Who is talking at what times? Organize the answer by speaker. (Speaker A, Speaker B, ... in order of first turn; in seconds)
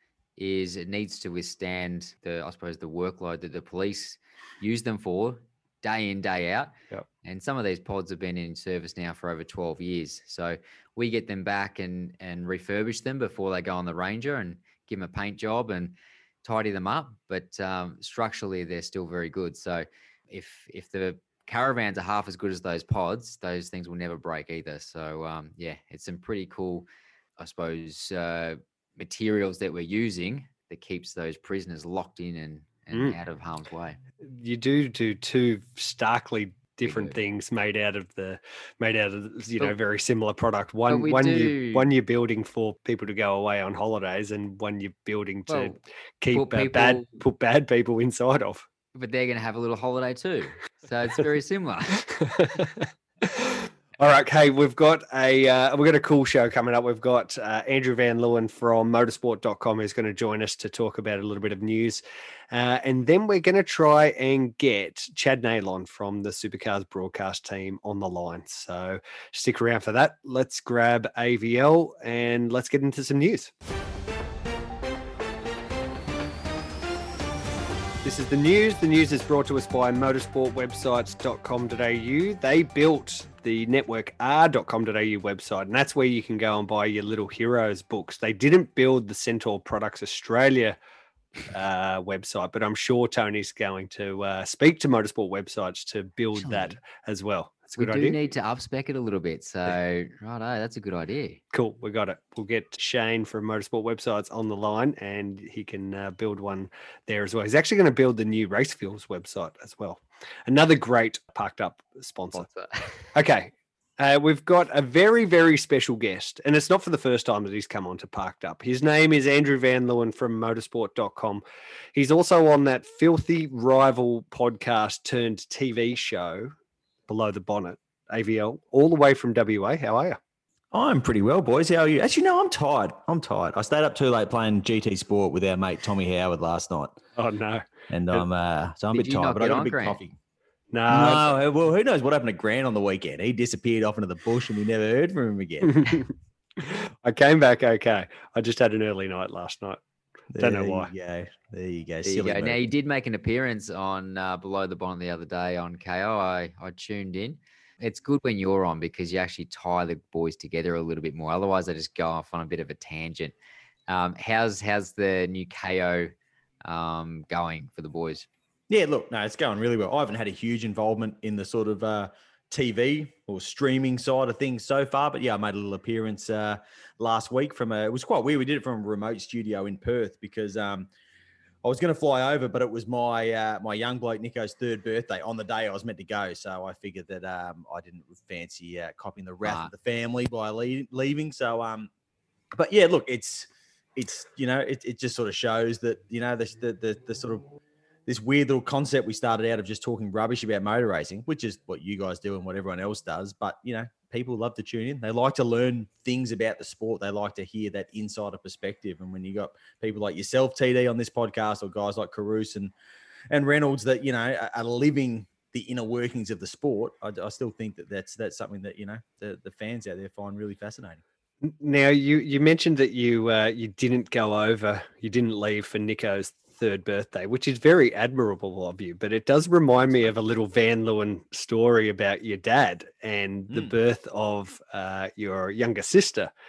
Speaker A: 0.4-26.9, 27.4-34.0, 36.9-37.1, 40.9-41.9, 45.5-45.8, 46.3-47.2, 48.9-52.2, 96.4-96.7, 97.8-101.4, 112.3-113.0, 138.9-140.0, 152.0-163.3, 163.9-166.1, 166.6-168.3, 189.4-189.7
Speaker B: 34.2-48.6, 52.1-73.5, 78.0-90.8, 91.5-98.2, 101.5-112.5, 113.1-121.4, 121.9-126.5, 127.1-130.2, 137.2-138.2, 140.7-141.3, 145.7-149.8, 150.4-150.9, 221.4-236.3
Speaker C: 130.7-137.0, 137.9-140.2, 140.9-145.9, 150.3-152.6, 168.7-180.9, 181.6-191.9, 192.6-197.5, 198.1-212.7, 213.3-221.0